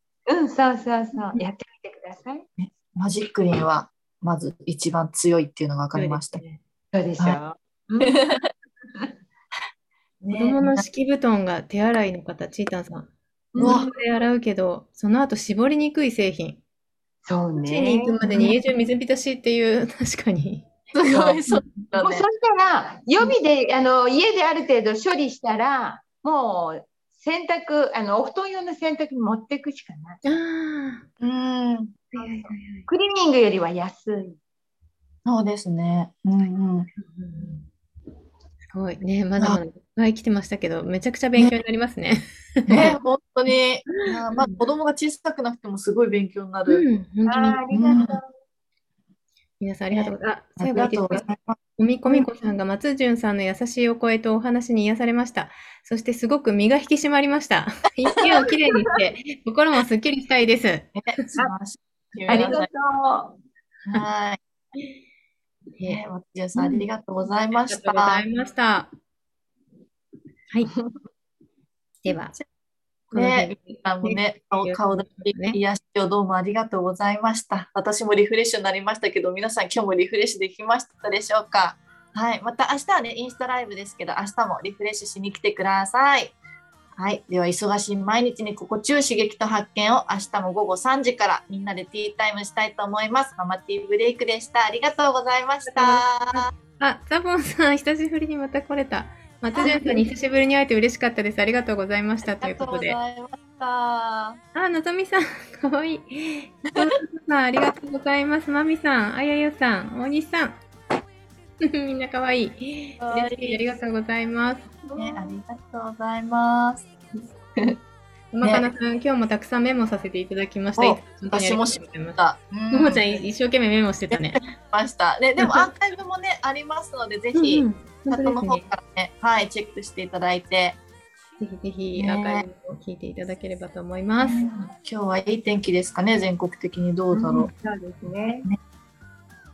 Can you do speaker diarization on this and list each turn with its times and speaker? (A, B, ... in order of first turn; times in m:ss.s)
0:00.3-0:02.5 A
0:01.2-0:01.4 B
0:02.6-0:06.4 C
0:05.9-0:06.6 B
0:06.9-0:08.3 A
0:08.0-0:08.5 C
0:10.2-0:10.8 C
0:10.3-0:16.6 B
0:13.5-0:14.0 A
0:13.6-0:13.9 C
0:17.2-0:18.5 A
0:17.6-0:20.7 B
0:20.9-0:22.3 C
0:21.1-0:21.4 A
0:21.5-0:21.7 B
0:22.0-0:30.2 A
0:30.2-0:31.1 B
0:31.2-0:32.1 C
0:32.1-0:32.9 B
0:32.2-0:34.4 A
0:35.3-0:36.9 C
0:37.0-0:37.7 B
0:38.6-0:43.0 B
0:42.7-0:46.8 C
0:44.0-0:44.6 B
0:46.7-0:47.6 B
0:47.3-0:48.2 A
0:47.7-0:48.2 C
0:49.6-1:01.0 B
0:49.9-0:51.6 C
1:01.0-1:02.7 C
1:02.3-1:03.4 A
1:02.3-1:02.6 B
1:03.9-1:04.4 C
1:05.9-1:08.2 C
1:06.6-1:06.9 B
1:07.5-1:08.9 B
1:10.7-1:10.9 A
1:12.0-1:12.4 B
1:13.1-1:15.6 B
1:13.1-1:26.4 C
1:27.0-1:36.5 C
1:35.7-1:43.0 B
1:39.6-1:40.0 C
1:42.2-1:44.4 C
1:44.6-1:50.6 B
1:51.6-1:55.4 B
1:53.0-1:53.6 C
1:55.0-1:56.8 C
1:58.3-2:02.2 B
1:58.4-1:58.7 C
2:00.8-2:03.2 C
2:02.7-2:04.4 B
2:04.1-2:10.8 C
2:05.4-2:05.7 B
2:07.3-2:08.7 B
2:11.4-2:14.5 B
2:12.0-2:12.5 C
2:14.2-2:17.5 C
2:17.1-2:18.5 A